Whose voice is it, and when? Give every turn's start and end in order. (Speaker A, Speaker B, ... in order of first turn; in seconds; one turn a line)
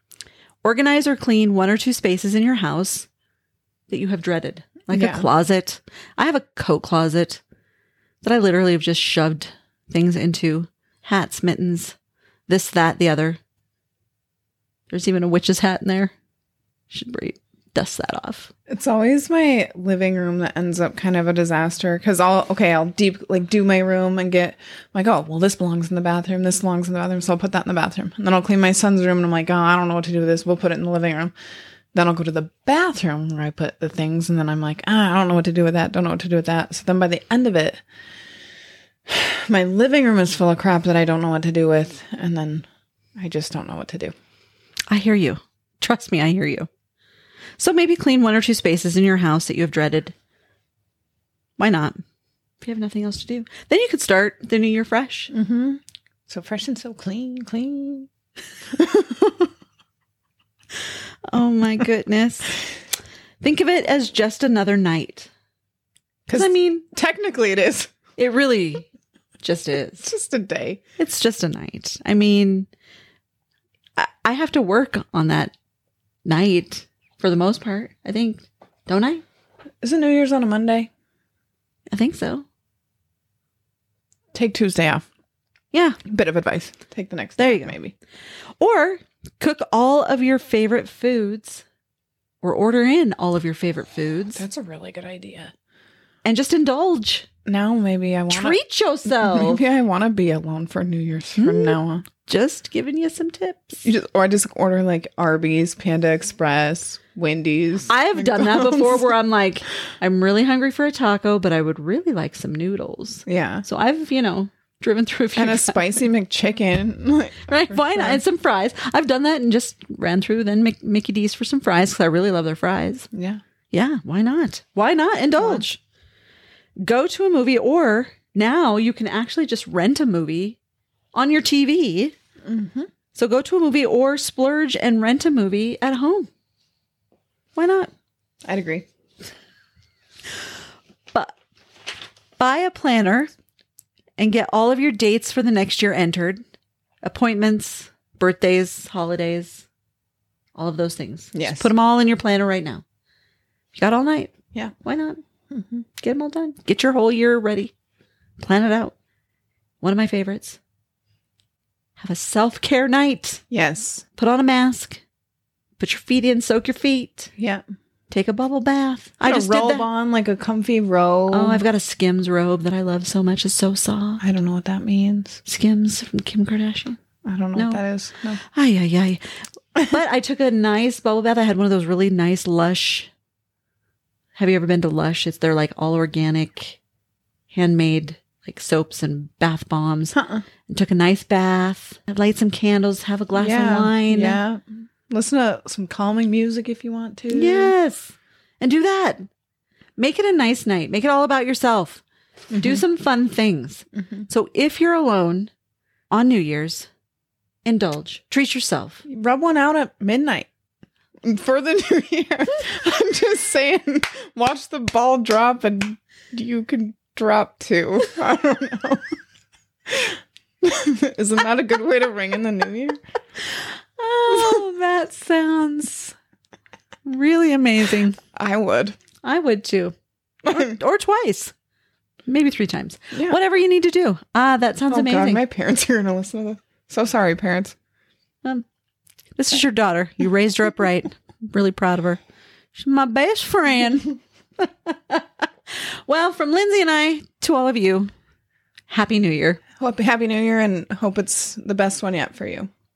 Speaker A: 0.6-3.1
Speaker A: 3.9-7.4
Speaker B: 4.9-5.3
Speaker A: 8.2-11.9
Speaker A: 12.5-13.4
Speaker A: 14.9-16.1
Speaker A: 16.9-18.5
Speaker B: 18.7-31.3
Speaker B: 31.9-37.8
Speaker B: 39.1-44.1
Speaker A: 44.9-46.7
Speaker A: 47.6-50.1
Speaker A: 51.6-52.0
Speaker A: 52.6-55.3
Speaker B: 55.3-58.1
Speaker B: 58.7-59.5
Speaker A: 61.3-62.6
Speaker A: 63.4-65.3
Speaker B: 66.3-67.9
Speaker A: 66.3-66.9
Speaker A: 68.2-68.9
Speaker A: 69.4-70.1
Speaker B: 70.0-70.8
Speaker A: 71.0-72.7
Speaker A: 74.0-75.5
Speaker A: 76.2-79.2
Speaker B: 79.8-80.9
Speaker A: 81.9-82.4
Speaker B: 84.3-85.0
Speaker A: 85.7-86.0
Speaker B: 86.1-87.9
Speaker A: 87.4-87.8
Speaker A: 88.6-91.6
Speaker A: 92.4-94.4
Speaker B: 94.3-95.5
Speaker A: 96.2-97.3
Speaker B: 97.5-98.6
Speaker A: 98.3-99.6
Speaker B: 99.1-102.0
Speaker A: 101.3-103.8
Speaker B: 103.8-109.2
Speaker A: 107.9-115.8
Speaker B: 113.2-113.7
Speaker B: 115.3-118.2
Speaker A: 117.5-123.1
Speaker B: 123.1-123.4
Speaker A: 123.7-125.8
Speaker B: 125.4-125.7
Speaker A: 126.8-130.6
Speaker A: 131.1-132.1
Speaker B: 132.4-132.9
Speaker A: 133.1-136.3
Speaker A: 137.5-137.9
Speaker B: 138.4-138.8
Speaker A: 142.4-143.3
Speaker A: 144.2-146.4
Speaker A: 147.0-149.7
Speaker A: 150.6-152.8
Speaker B: 151.3-151.7
Speaker A: 153.7-155.2
Speaker B: 155.5-155.8
Speaker A: 156.0-157.7
Speaker A: 158.4-158.9
Speaker A: 159.8-160.6
Speaker A: 162.0-163.4
Speaker B: 163.5-164.0
Speaker A: 164.2-165.0
Speaker A: 165.8-167.3
Speaker B: 167.4-167.6
Speaker A: 168.1-169.9
Speaker B: 169.2-171.6
Speaker A: 171.3-174.2
Speaker B: 174.2-175.4
Speaker A: 175.4-177.0
Speaker B: 177.2-178.4
Speaker A: 177.5-177.8
Speaker A: 178.4-179.2
Speaker A: 179.7-183.1
Speaker A: 184.3-186.8
Speaker A: 187.5-194.4
Speaker B: 190.1-190.4
Speaker B: 193.3-197.7
Speaker A: 197.3-199.3
Speaker A: 200.0-202.0
Speaker B: 202.5-202.8
Speaker A: 202.6-205.5
Speaker A: 206.1-206.9
Speaker A: 207.6-209.0
Speaker B: 209.1-210.5
Speaker B: 211.2-219.1
Speaker B: 219.9-223.0
Speaker A: 224.0-226.1
Speaker A: 227.1-228.2
Speaker B: 228.3-228.9
Speaker A: 229.2-231.5
Speaker A: 232.2-235.4
Speaker B: 234.9-237.7
Speaker A: 239.3-242.2
Speaker A: 242.7-245.2
Speaker A: 246.1-248.1
Speaker A: 248.9-249.6
Speaker B: 249.8-252.7